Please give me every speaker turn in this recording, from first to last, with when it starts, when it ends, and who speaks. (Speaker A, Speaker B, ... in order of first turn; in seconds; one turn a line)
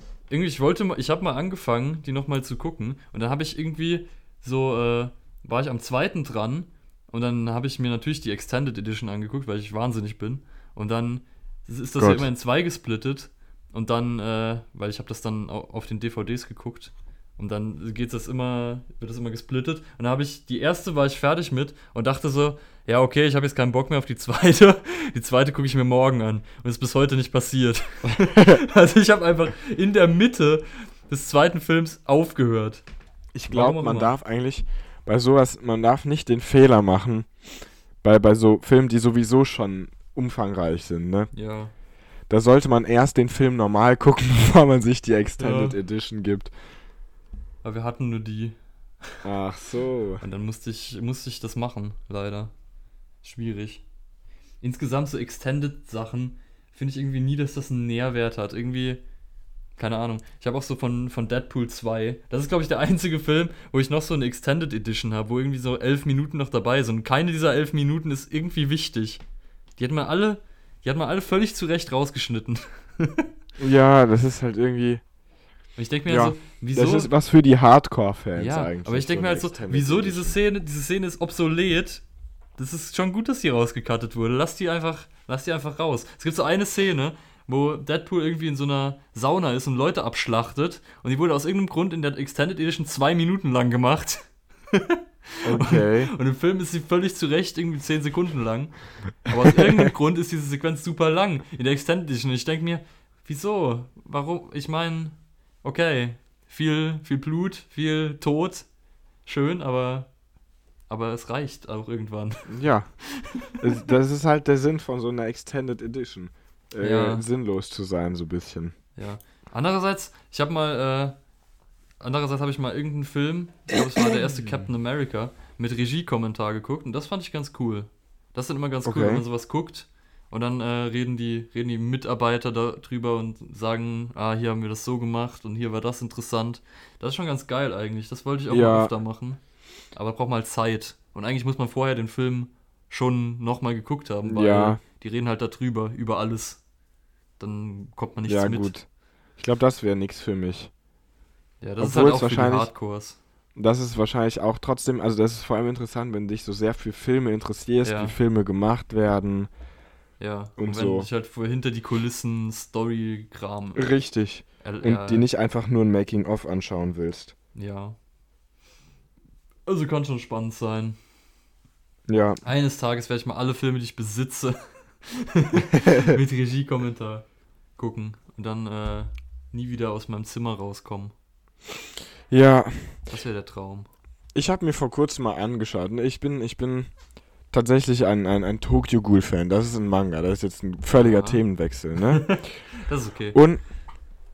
Speaker A: 0.3-32.8
Speaker B: 12.0-12.3
Speaker B: 28.2-28.6
Speaker B: 33.3-37.3
Speaker A: 33.5-34.1
Speaker B: 38.0-41.3
Speaker A: 41.3-41.7
Speaker B: 42.3-46.5
Speaker A: 45.4-45.8
Speaker A: 47.6-48.6
Speaker B: 49.2-50.2
Speaker A: 50.2-52.5
Speaker A: 53.2-53.8
Speaker A: 54.6-59.0
Speaker A: 59.8-69.2
Speaker A: 69.8-73.3
Speaker B: 73.6-75.0
Speaker A: 75.8-77.1
Speaker B: 76.1-80.4
Speaker A: 78.3-82.0
Speaker A: 82.6-108.7
Speaker B: 95.4-96.1
Speaker B: 99.5-99.8
Speaker A: 109.2-110.1
Speaker A: 110.9-113.6
Speaker B: 112.5-112.9
Speaker B: 113.6-118.7
Speaker A: 116.8-117.2
Speaker A: 119.0-121.2
Speaker A: 122.0-139.4
Speaker B: 124.3-124.6
Speaker B: 128.8-129.2
Speaker B: 138.5-138.9
Speaker A: 139.9-146.6
Speaker B: 144.2-144.8
Speaker A: 147.4-148.7
Speaker B: 148.3-148.8
Speaker B: 149.4-150.7
Speaker A: 151.6-153.2
Speaker B: 151.8-152.7
Speaker B: 153.6-159.5
Speaker A: 157.8-158.2
Speaker A: 160.2-163.9
Speaker B: 160.6-161.1
Speaker B: 163.7-167.3
Speaker A: 164.6-165.2
Speaker A: 167.5-167.9
Speaker A: 169.7-171.0
Speaker B: 172.1-172.4
Speaker A: 172.4-177.2
Speaker B: 175.7-176.2
Speaker A: 177.8-181.1
Speaker B: 182.3-183.0
Speaker A: 183.1-183.9
Speaker B: 184.3-186.9
Speaker B: 187.5-192.4
Speaker A: 190.9-191.4
Speaker A: 192.0-193.4
Speaker B: 193.3-193.6